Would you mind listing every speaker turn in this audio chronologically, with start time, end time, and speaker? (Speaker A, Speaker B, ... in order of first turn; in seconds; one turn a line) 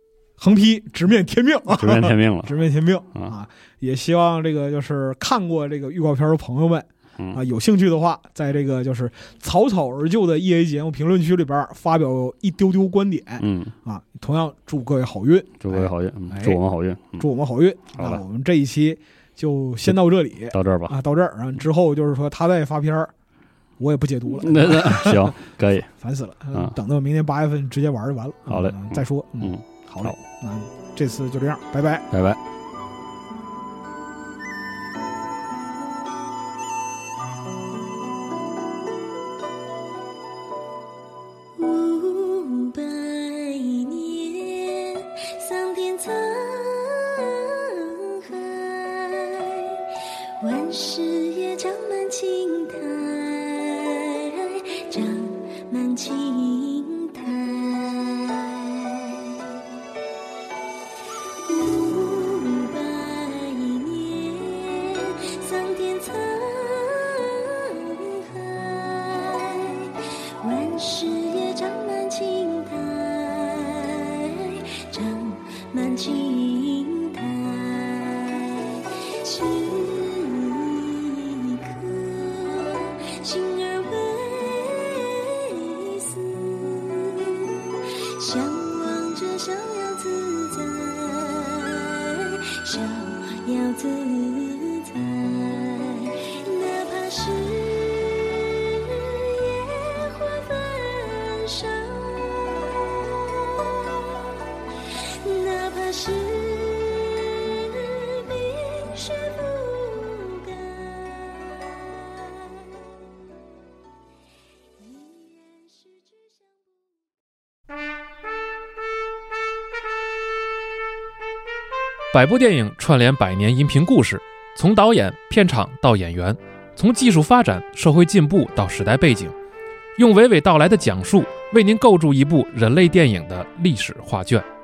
Speaker A: 0.4-16.6
Speaker B: 1.7-3.3
Speaker B: 13.4-13.7
Speaker B: 15.6-17.2
Speaker A: 17.2-23.1
Speaker B: 18.0-18.2
Speaker B: 20.5-20.9
Speaker A: 23.8-25.4
Speaker B: 24.3-25.9
Speaker A: 26.0-32.1
Speaker B: 28.4-30.1
Speaker B: 32.1-32.4
Speaker C: 41.5-49.8
Speaker C: 50.4-59.6
Speaker C: 61.4-104.2
Speaker C: 104.9-111.6
Speaker C: 112.2-112.6
Speaker C: 114.8-116.0
Speaker D: 122.1-129.3
Speaker D: 130.0-134.4